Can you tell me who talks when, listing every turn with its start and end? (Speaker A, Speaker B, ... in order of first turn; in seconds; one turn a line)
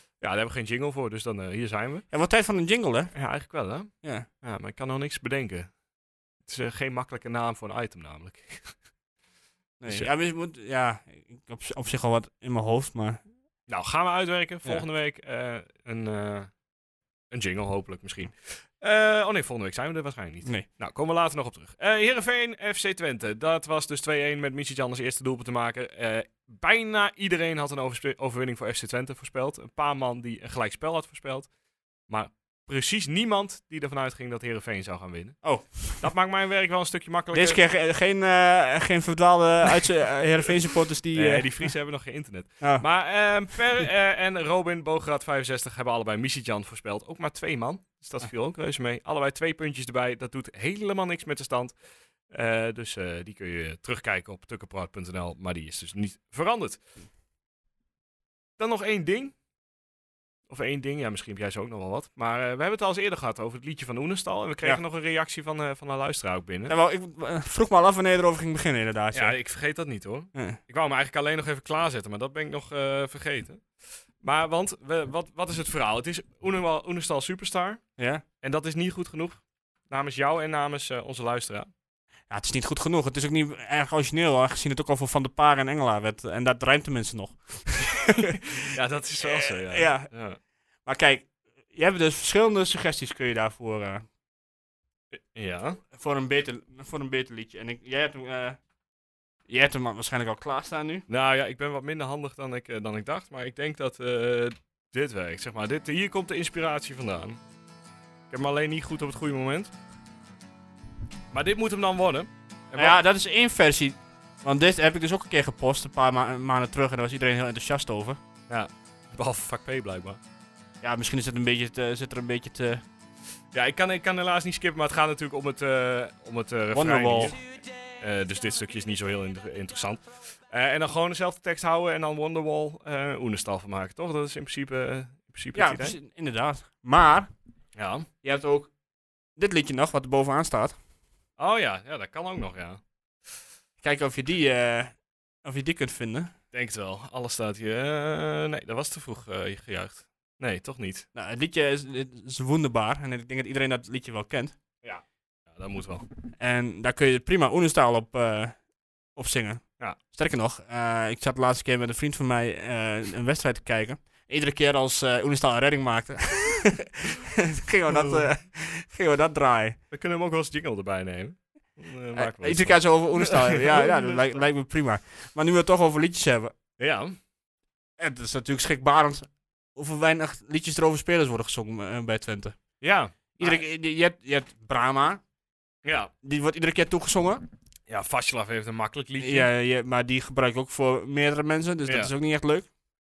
Speaker A: 0.2-2.1
Speaker B: 2.1-3.1
Speaker A: 3.1-5.7
Speaker B: 4.0-4.3
Speaker A: 6.4-8.8
Speaker B: 9.8-13.2
Speaker A: 9.8-10.1
Speaker A: 13.7-16.5
Speaker A: 17.3-31.5
Speaker A: 32.1-37.6
Speaker B: 35.4-36.1
Speaker B: 37.3-41.7
Speaker A: 41.1-51.8
Speaker B: 42.6-42.9
Speaker A: 52.3-56.8
Speaker A: 58.6-59.3
Speaker A: 60.5-66.8
Speaker B: 66.7-69.3
Speaker A: 69.1-73.7
Speaker B: 70.3-70.6
Speaker A: 74.2-77.8
Speaker B: 78.0-78.2
Speaker A: 78.4-81.7
Speaker B: 82.3-88.6
Speaker A: 88.2-90.4
Speaker B: 89.2-90.1
Speaker B: 90.8-94.0
Speaker A: 95.1-95.8
Speaker B: 95.9-98.6
Speaker B: 99.5-101.0
Speaker A: 101.1-107.4
Speaker A: 108.3-109.7
Speaker A: 111.3-113.0
Speaker B: 112.8-118.2
Speaker A: 118.5-120.2
Speaker B: 120.8-122.8
Speaker A: 123.5-127.4
Speaker B: 126.7-127.3
Speaker A: 128.0-135.9
Speaker B: 135.5-137.3
Speaker A: 137.7-138.1
Speaker B: 138.2-138.7
Speaker B: 139.3-140.8
Speaker A: 141.4-142.8
Speaker B: 143.8-146.3
Speaker A: 146.5-151.1
Speaker B: 151.1-154.5
Speaker A: 154.8-156.1
Speaker B: 156.4-158.6
Speaker B: 159.1-169.8
Speaker A: 167.9-168.2
Speaker A: 169.9-174.4
Speaker B: 172.1-176.5
Speaker A: 176.8-177.2
Speaker B: 178.0-182.6
Speaker A: 182.8-183.6
Speaker B: 183.4-185.2
Speaker A: 185.8-186.1
Speaker B: 186.2-187.4
Speaker A: 187.9-189.5
Speaker B: 189.2-192.7
Speaker A: 191.8-192.1